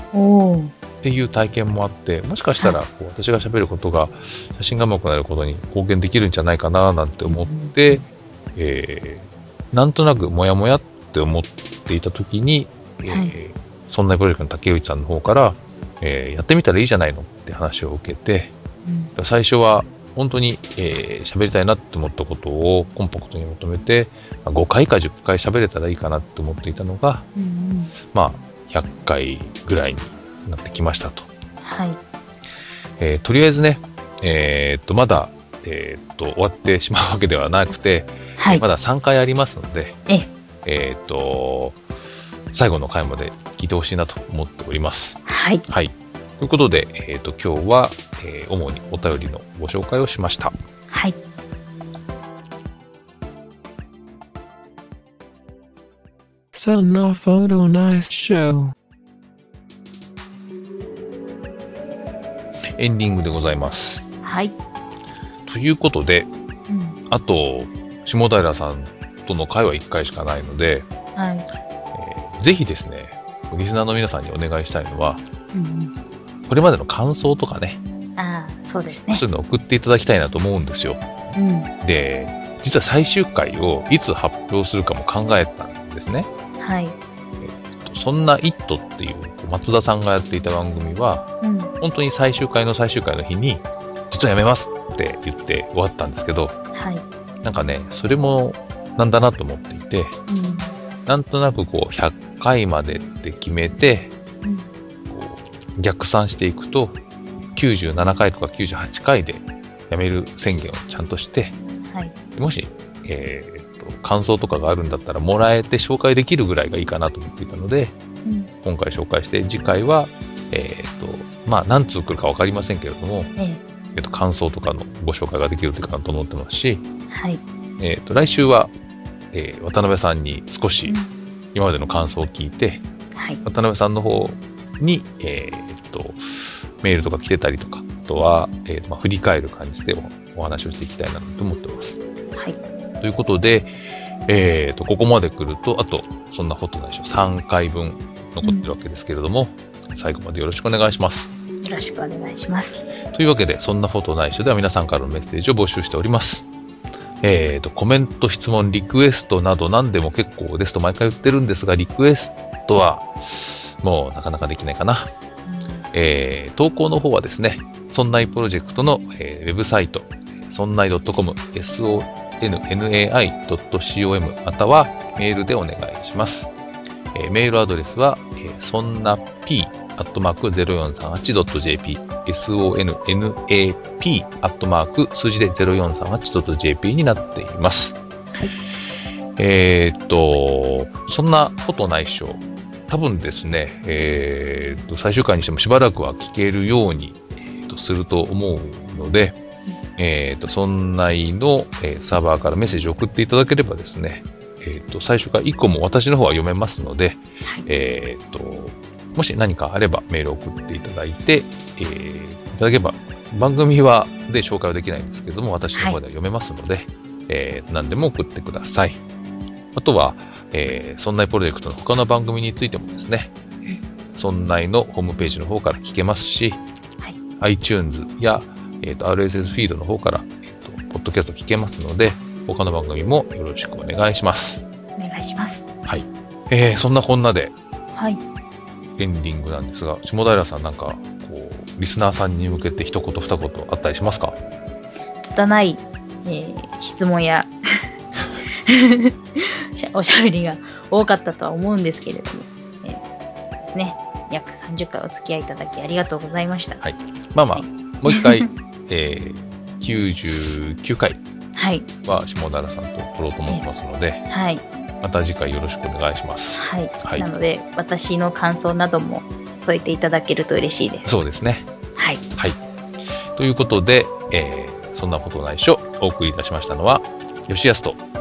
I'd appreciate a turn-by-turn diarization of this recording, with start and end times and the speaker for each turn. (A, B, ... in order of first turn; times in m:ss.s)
0:00.1-0:00.7 A
0:01.0-0:08.0 B
0:07.3-0:08.0 A
0:08.6-0:18.5 B
0:18.9-0:19.1 A
0:19.2-0:27.3 B
0:27.4-0:27.9 A
0:28.1-0:31.3 B
0:31.6-0:32.0 A
0:33.0-0:40.0 B
0:38.4-0:38.6 A
0:40.6-0:41.8 B
0:42.5-0:50.5 B
0:45.3-0:45.6 A
0:50.9-0:51.2 A
0:56.5-0:58.7 C
1:02.8-1:04.0 B
1:04.2-1:04.6 A
1:05.5-1:06.3 B
1:06.7-1:07.0 A
1:07.1-1:10.9 B
1:11.2-1:11.5 A
1:11.9-1:15.2 B
1:15.5-1:15.9 A
1:16.5-1:17.8 B
1:18.2-1:19.2 A
1:19.1-1:21.0 B
1:21.3-1:21.7 A
1:21.8-1:26.3 B
1:26.6-1:27.0 A
1:27.4-1:31.3 B
1:31.4-1:31.7 A
1:31.8-1:36.6 B
1:36.7-1:37.0 A
1:37.4-1:40.2 B
1:40.3-1:40.8 A
1:41.1-1:44.1 B
1:45.1-1:47.0 B
1:47.6-1:51.6 B
1:51.9-1:52.1 A
1:52.4-1:58.0 B
1:58.2-1:58.5 A
1:58.6-2:03.3 B
2:03.4-2:03.6 A
2:04.0-2:06.8 B
2:07.1-2:07.4 A
2:07.8-2:08.7 B
2:09.3-2:11.0 B
2:11.6-2:12.8 B
2:13.2-2:13.4 A
2:13.4-2:16.2 B
2:16.8-2:22.0 B
2:23.0-2:23.7 B
2:24.3-2:31.3 B
2:31.6-2:32.8 A
2:33.1-2:36.5 B
2:37.2-2:45.1 B
2:45.5-2:45.8 A
2:45.9-2:56.5 B
2:57.1-3:08.0 B
3:09.4-3:19.4 B
3:20.0-3:39.0 B
3:39.8-3:43.3 B
3:44.2-3:46.6 B
3:47.4-3:54.6 B
3:55.0-3:55.7 A
3:55.9-3:57.6 B
3:57.9-3:58.2 A
3:59.0-4:04.4 B
4:05.2-4:07.9 A
4:08.5-4:13.0 A
4:13.6-4:16.8 A
4:16.8-4:21.2 B
4:17.5-4:18.5 A
4:21.6-4:21.9 A
4:22.0-4:24.3 B
4:24.3-4:24.6 A
4:25.0-4:27.3 B
4:26.6-4:31.1 A
4:31.0-4:31.7 B
4:32.0-4:32.2 A
4:33.4-4:38.0 B